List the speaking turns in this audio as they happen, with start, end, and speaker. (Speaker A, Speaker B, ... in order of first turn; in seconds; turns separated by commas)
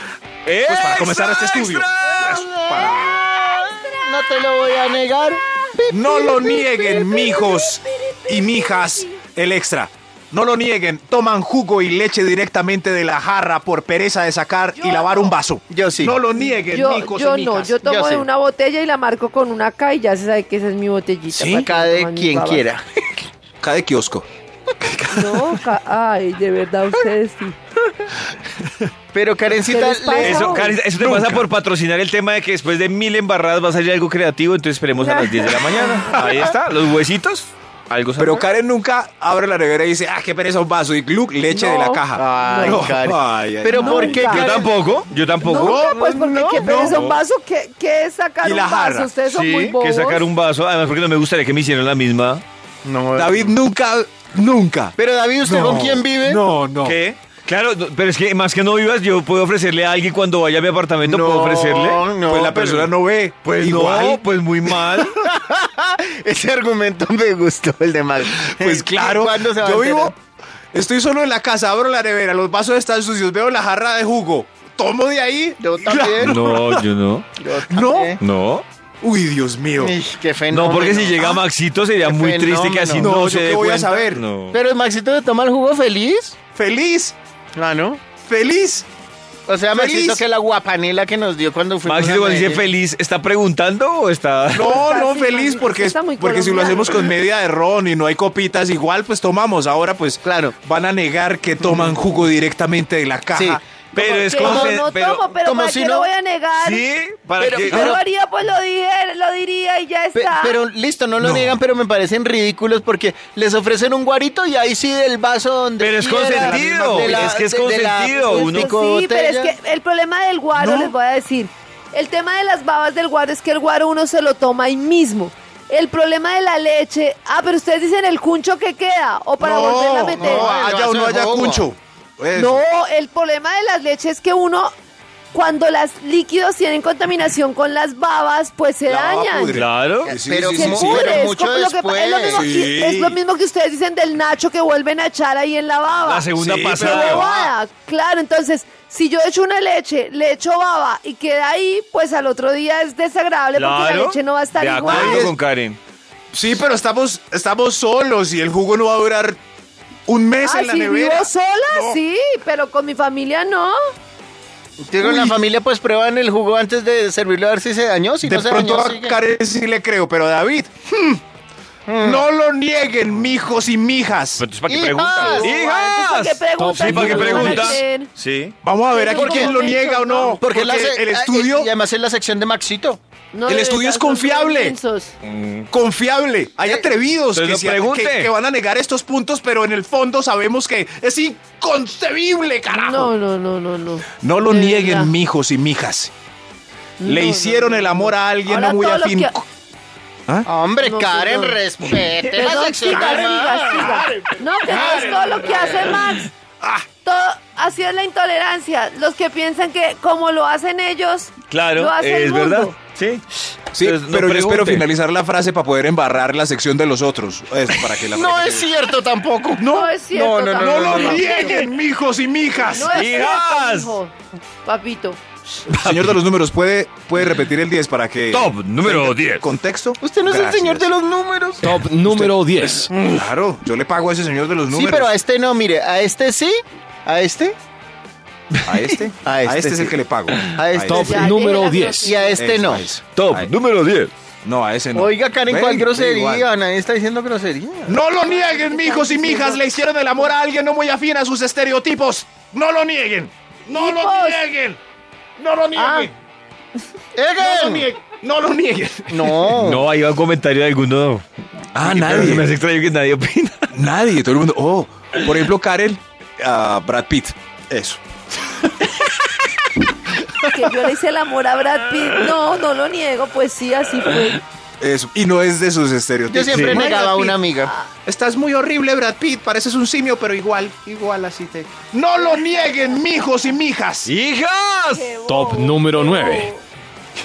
Speaker A: 0.5-2.4, Speaker B: 0.6-3.2, Speaker C: 2.0-6.8, Speaker D: 2.8-4.5, Speaker B: 5.9-17.8, Speaker D: 6.8-9.2, Speaker D: 14.8-15.3, Speaker C: 15.7-16.2, Speaker D: 16.7-22.6, Speaker C: 17.8-18.2, Speaker B: 21.3-21.6, Speaker C: 21.6-22.8, Speaker B: 23.6-24.2, Speaker B: 24.8-25.6, Speaker D: 25.1-27.5, Speaker C: 29.1-30.7, Speaker D: 29.6-30.7, Speaker A: 30.2-38.5, Speaker B: 31.0-31.5, Speaker B: 36.2-36.5, Speaker B: 38.2-44.3, Speaker D: 41.5-42.8, Speaker C: 42.2-44.8, Speaker D: 43.7-44.5, Speaker A: 44.2-45.8, Speaker D: 45.4-50.3, Speaker B: 45.5-47.0, Speaker C: 45.7-46.8, Speaker A: 46.8-47.2, Speaker B: 48.4-49.1, Speaker A: 49.3-52.4, Speaker C: 52.8-53.5, Speaker B: 53.1-57.0, Speaker C: 55.0-56.4, Speaker A: 56.8-62.1, Speaker C: 61.0-62.9, Speaker B: 62.3-64.2, Speaker A: 63.5-65.2, Speaker C: 65.0-70.1, Speaker B: 68.3-70.1, Speaker B: 70.7-76.9, Speaker C: 75.6-76.3, Speaker A: 76.2-77.3, Speaker C: 77.4-78.2, Speaker B: 77.7-78.1, Speaker A: 78.2-78.6, Speaker B: 79.0-80.0, Speaker C: 79.8-81.4, Speaker A: 80.5-84.6, Speaker C: 82.0-83.1, Speaker B: 83.0-84.2, Speaker C: 84.5-86.4, Speaker B: 86.5-87.2, Speaker C: 87.5-88.0, Speaker B: 88.3-88.9, Speaker C: 89.5-92.7, Speaker B: 89.7-90.2, Speaker A: 91.8-94.7, Speaker B: 94.5-103.6, Speaker D: 94.7-97.0, Speaker C: 100.2-100.5, Speaker C: 101.6-102.0, Speaker C: 103.3-104.8, Speaker A: 103.9-105.2, Speaker D: 104.2-106.8, Speaker C: 105.4-106.1, Speaker A: 106.6-107.9, Speaker C: 107.4-108.0, Speaker D: 107.7-110.6, Speaker C: 110.1-119.5, Speaker B: 111.2-111.6, Speaker A: 115.8-118.7, Speaker B: 116.2-117.3, Speaker D: 118.2-130.5, Speaker B: 120.5-120.9, Speaker B: 129.4-132.6, Speaker C: 130.2-131.6, Speaker D: 132.3-134.7, Speaker D: 135.3-139.5, Speaker B: 138.8-141.3, Speaker A: 139.5-140.1, Speaker C: 140.1-142.4, Speaker D: 140.5-155.3, Speaker B: 142.3-143.2, Speaker A: 146.0-147.3, Speaker B: 146.4-147.5, Speaker A: 153.5-155.8, Speaker B: 154.8-155.3, Speaker B: 156.3-159.4, Speaker B: 160.1-162.0, Speaker D: 160.4-163.8, Speaker C: 164.8-169.2, Speaker B: 165.0-165.4, Speaker B: 168.2-171.2, Speaker C: 171.9-172.2, Speaker B: 172.0-174.4, Speaker A: 174.4-178.5, Speaker C: 174.7-175.6, Speaker D: 175.2-178.1, Speaker E: 176.6-177.8, Speaker B: 178.6-181.7, Speaker D: 178.9-180.4, Speaker C: 179.1-179.6, Speaker C: 180.2-183.0, Speaker D: 183.3-185.1, Speaker B: 183.5-184.8, Speaker A: 185.2-185.7, Speaker B: 185.7-193.1, Speaker A: 187.3-188.3, Speaker D: 192.7-195.1, Speaker B: 194.2-196.1, Speaker D: 197.0-199.3, Speaker B: 197.0-199.4, Speaker C: 200.4-203.8, Speaker D: 200.8-201.6, Speaker D: 202.2-206.3, Speaker B: 202.9-205.9, Speaker B: 206.6-206.8, Speaker D: 207.0-212.7, Speaker A: 211.5-214.9, Speaker B: 213.7-218.7, Speaker C: 217.7-221.6, Speaker B: 219.6-219.9, Speaker D: 219.7-221.7, Speaker B: 220.6-223.0, Speaker D: 222.6-225.2, Speaker A: 222.9-223.9, Speaker A: 225.7-226.2, Speaker B: 225.7-230.9, Speaker A: 228.3-229.4, Speaker C: 230.0-231.7, Speaker E: 231.6-232.9, Speaker B: 232.1-232.4, Speaker C: 232.9-233.2, Speaker B: 233.0-235.1, Speaker C: 234.7-237.6, Speaker B: 238.6-241.3, Speaker C: 239.2-239.9, Speaker C: 240.5-241.2, Speaker E: 240.8-242.1, Speaker D: 240.9-242.5, Speaker C: 242.0-242.9, Speaker B: 242.3-243.5, Speaker A: 243.1-244.1, Speaker B: 244.4-246.5, Speaker C: 244.9-247.9, Speaker B: 247.8-254.8, Speaker D: 248.2-249.6, Speaker D: 253.7-254.4, Speaker B: 255.4-256.1, Speaker D: 255.8-256.1, Speaker C: 257.1-257.9, Speaker B: 257.4-259.6, Speaker C: 259.1-259.8, Speaker A: 259.5-261.2, Speaker B: 261.8-262.5, Speaker A: 261.8-263.7, Speaker B: 263.7-268.0, Speaker D: 270.4-274.4, Speaker B: 274.8-277.4, Speaker C: 276.3-277.7, Speaker A: 276.5-276.9, Speaker B: 278.1-284.1, Speaker D: 282.2-283.0, Speaker A: 284.1-285.1, Speaker D: 284.9-286.6, Speaker E: 285.3-286.5